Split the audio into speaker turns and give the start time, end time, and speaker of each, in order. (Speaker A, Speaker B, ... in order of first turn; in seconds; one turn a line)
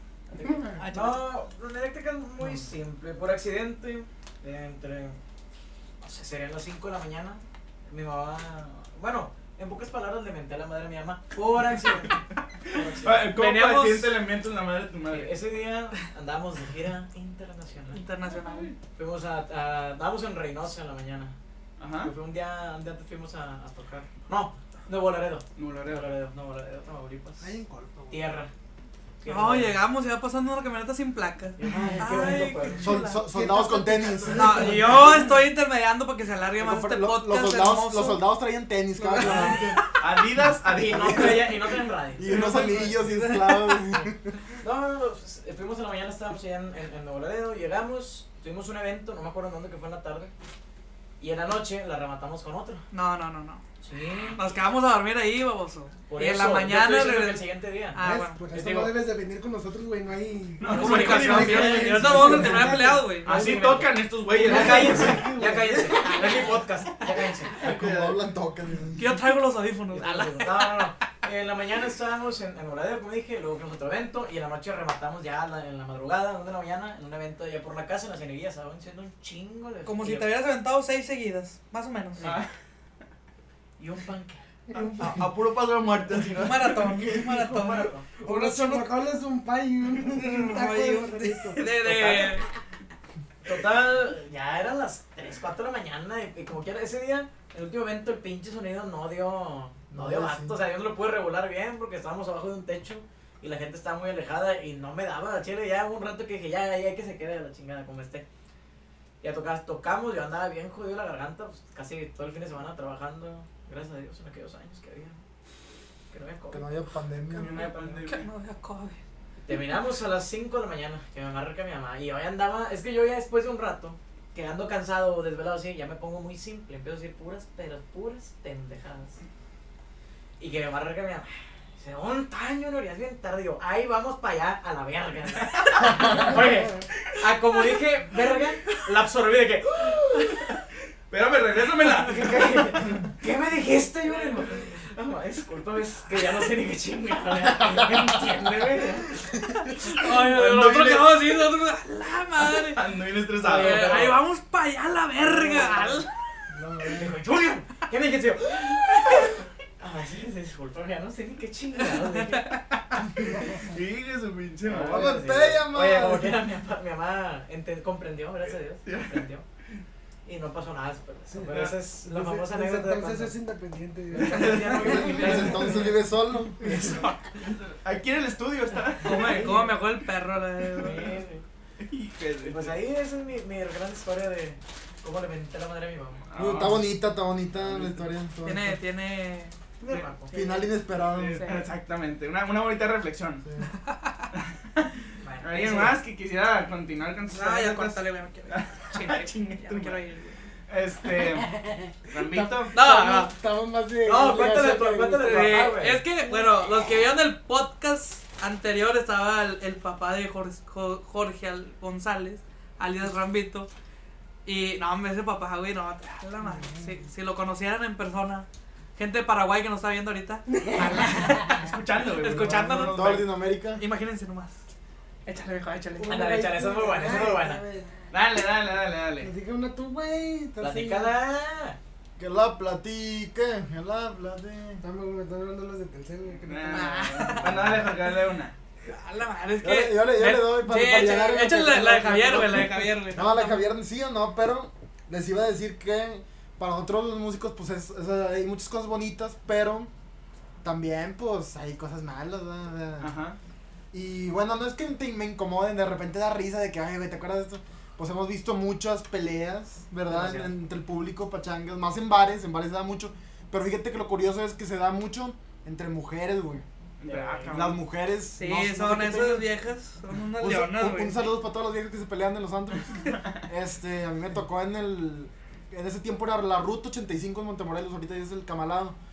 Speaker A: 0.3-5.2
Speaker B: 0.8-1.3
Speaker A: 6.0-13.3
Speaker C: 12.7-15.4
Speaker B: 13.3-14.1
Speaker A: 15.1-18.0
Speaker B: 17.9-18.7
Speaker C: 18.2-18.7
Speaker A: 18.9-21.3
Speaker C: 21.8-22.1
Speaker A: 21.9-27.5
Speaker C: 25.6-26.1
Speaker D: 27.4-28.4
Speaker A: 28.1-28.5
Speaker A: 29.2-29.8
Speaker B: 29.2-33.2
Speaker A: 31.6-33.0
Speaker E: 32.8-34.8
Speaker D: 33.1-35.1
Speaker A: 34.3-35.3
Speaker B: 34.3-38.2
Speaker E: 36.6-39.8
Speaker B: 39.1-39.8
Speaker A: 39.2-39.6
Speaker C: 40.0-41.7
Speaker A: 40.6-42.7
Speaker E: 40.8-41.5
Speaker E: 42.1-44.4
Speaker B: 42.2-43.8
Speaker A: 44.6-50.3
Speaker A: 51.2-52.8
Speaker B: 52.9-53.6
Speaker A: 53.8-54.5
Speaker B: 54.3-58.5
Speaker A: 56.1-59.0
Speaker D: 58.0-63.2
Speaker C: 60.6-62.5
Speaker A: 60.6-67.6
Speaker B: 60.7-63.4
Speaker C: 63.2-65.4
Speaker B: 64.5-66.5
Speaker D: 64.5-65.8
Speaker C: 67.5-68.2
Speaker E: 67.6-69.1
Speaker B: 69.0-70.8
Speaker A: 69.9-80.3
Speaker B: 79.8-82.3
Speaker A: 82.2-82.4
Speaker C: 82.2-82.5
Speaker A: 83.8-84.4
Speaker B: 84.7-85.0
Speaker C: 85.0-87.2
Speaker B: 86.3-88.9
Speaker A: 86.9-88.1
Speaker D: 88.2-91.7
Speaker B: 90.1-92.5
Speaker A: 91.8-92.4
Speaker A: 93.4-108.2
Speaker E: 99.9-100.5
Speaker A: 109.2-115.2
Speaker A: 116.1-116.7
Speaker E: 116.5-117.6
Speaker C: 117.3-118.2
Speaker A: 117.4-118.0
Speaker B: 117.5-119.0
Speaker A: 119.5-129.2
Speaker A: 130.4-140.5
Speaker C: 141.1-143.1
Speaker A: 141.7-149.2
Speaker E: 149.2-149.5
Speaker B: 149.6-152.8
Speaker C: 149.9-151.4
Speaker C: 152.4-153.9
Speaker A: 153.3-154.2
Speaker B: 153.5-156.1
Speaker A: 155.2-156.0
Speaker E: 156.5-157.2
Speaker A: 156.8-162.5
Speaker B: 161.9-162.6
Speaker C: 162.9-165.1
Speaker A: 164.6-169.4
Speaker E: 164.8-166.4
Speaker C: 168.4-169.2
Speaker A: 170.2-173.4
Speaker D: 171.3-175.4
Speaker A: 174.1-175.9
Speaker C: 174.2-175.2
Speaker B: 174.3-175.9
Speaker E: 175.1-177.0
Speaker C: 176.6-179.4
Speaker B: 179.0-181.2
Speaker D: 179.3-179.6
Speaker A: 180.8-181.4
Speaker C: 181.8-182.8
Speaker A: 182.4-186.3
Speaker C: 186.2-186.9
Speaker E: 186.3-188.8
Speaker A: 187.6-188.1
Speaker B: 188.4-189.6
Speaker A: 189.8-190.3
Speaker E: 190.3-191.5
Speaker C: 191.1-193.4
Speaker B: 191.3-191.7
Speaker E: 193.4-193.7
Speaker C: 194.3-200.0
Speaker A: 195.2-196.0
Speaker B: 197.3-200.4
Speaker C: 200.7-201.6
Speaker D: 201.4-205.5
Speaker C: 202.1-202.7
Speaker B: 202.7-203.3
Speaker A: 204.0-206.0
Speaker B: 205.2-213.7
Speaker B: 214.4-223.1
Speaker D: 216.4-216.8
Speaker D: 220.6-221.3
Speaker C: 221.4-223.3
Speaker E: 222.2-223.8
Speaker B: 223.8-224.6
Speaker B: 225.2-226.3
Speaker D: 226.0-228.0
Speaker A: 226.0-227.6
Speaker C: 228.1-229.3
Speaker D: 229.2-231.2
Speaker A: 230.6-231.8
Speaker E: 232.2-234.8
Speaker D: 234.8-237.7
Speaker C: 236.3-238.5
Speaker B: 236.7-237.8
Speaker B: 238.8-243.7
Speaker E: 239.6-249.9
Speaker E: 250.6-253.2
Speaker C: 253.0-253.4
Speaker E: 253.9-266.6
Speaker A: 260.1-260.5
Speaker C: 267.0-267.8
Speaker A: 267.0-267.8
Speaker E: 267.5-269.5
Speaker B: 268.4-271.2
Speaker E: 270.4-278.9
Speaker C: 273.1-273.4